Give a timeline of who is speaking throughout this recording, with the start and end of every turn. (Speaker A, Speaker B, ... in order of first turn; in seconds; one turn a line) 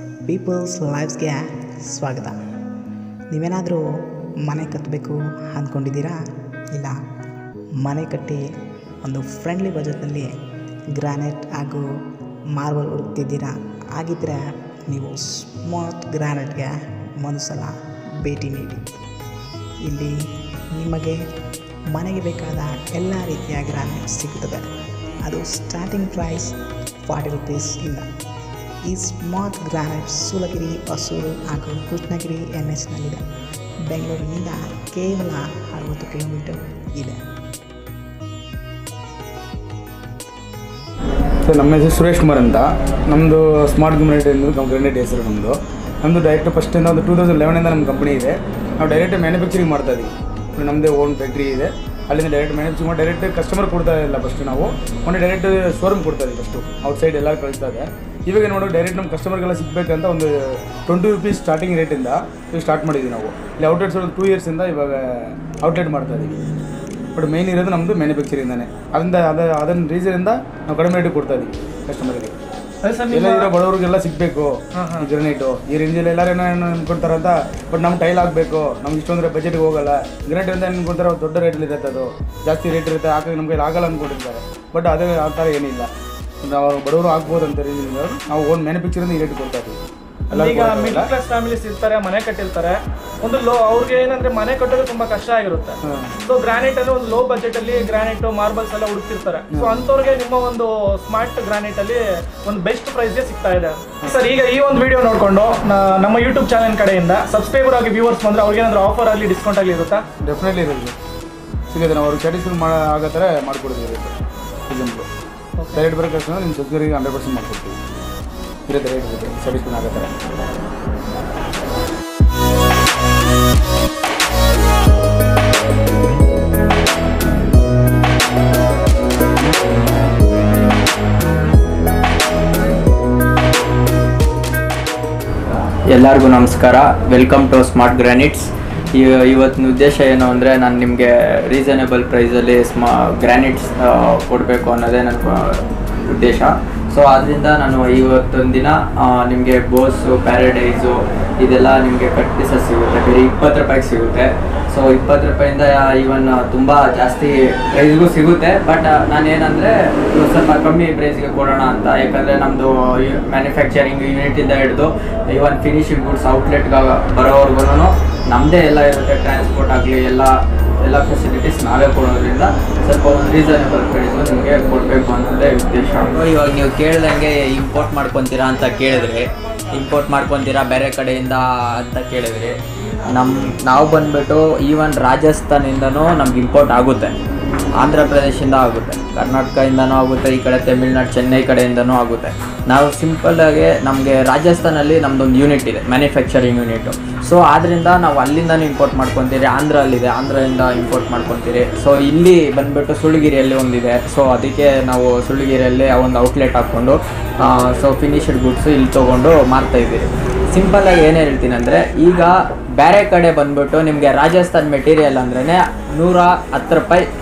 Speaker A: 0.2-2.4
Speaker A: 3.3-6.2
Speaker A: 7.8-8.4
Speaker A: 9.0-10.3
Speaker A: 10.9-11.8
Speaker A: 12.5-18.8
Speaker A: 19.8-20.1
Speaker A: 20.7-21.2
Speaker A: 21.9-24.7
Speaker A: 25.2-26.5
Speaker A: 27.1-28.1
Speaker A: 28.9-33.2
Speaker A: 33.9-37.2
Speaker B: 41.4-60.3
Speaker B: 60.9-66.3
Speaker B: 67.1-72.3
Speaker C: 72.8-73.5
Speaker B: 73.1-85.9
Speaker C: 74.7-75.1
Speaker B: 86.4-89.8
Speaker B: 90.3-91.1
Speaker C: 90.3-110.0
Speaker B: 95.8-96.1
Speaker B: 99.5-99.9
Speaker B: 110.2-111.0
Speaker B: 111.7-114.1
Speaker B: 114.7-115.1
Speaker C: 115.6-115.9
Speaker B: 115.7-117.8
Speaker B: 118.7-120.2
Speaker D: 135.9-182.6
Speaker D: 183.1-187.2
Speaker D: 187.8-217.1